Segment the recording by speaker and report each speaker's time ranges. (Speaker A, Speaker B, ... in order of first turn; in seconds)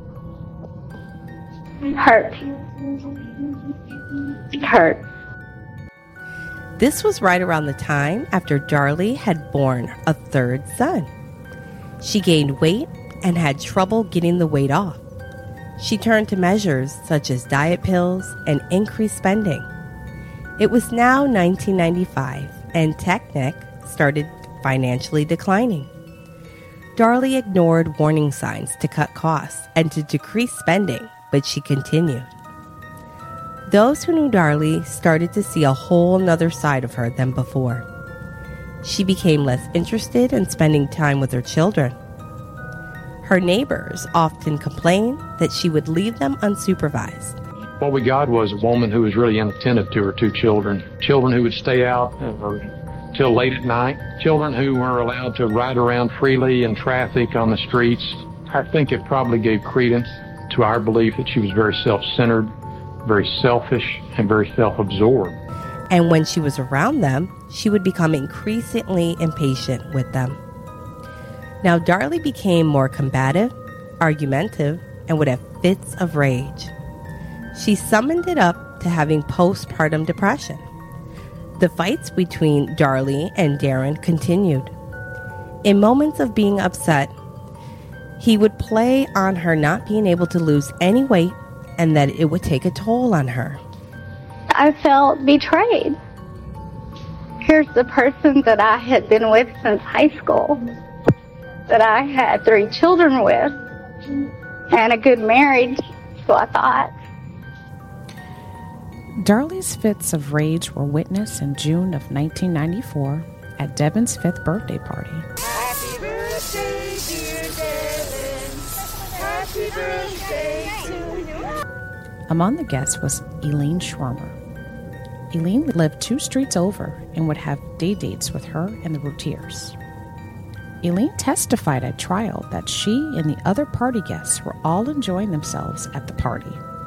Speaker A: 1.9-2.4, 4.5-5.0, 94.5-96.0, 97.4-100.6, 101.7-103.5, 104.7-106.9
Speaker B: 6.8-11.1, 12.0-15.0, 15.8-19.7, 20.6-25.9, 27.0-32.3, 33.7-37.9, 38.8-42.0, 43.2-47.4, 65.9-70.4, 71.6-76.7, 77.5-80.7, 81.6-84.7, 85.6-87.1, 88.2-93.6
Speaker C: 47.8-62.5, 63.0-65.4
Speaker D: 109.2-115.3, 122.3-124.4, 125.3-129.8, 130.8-136.6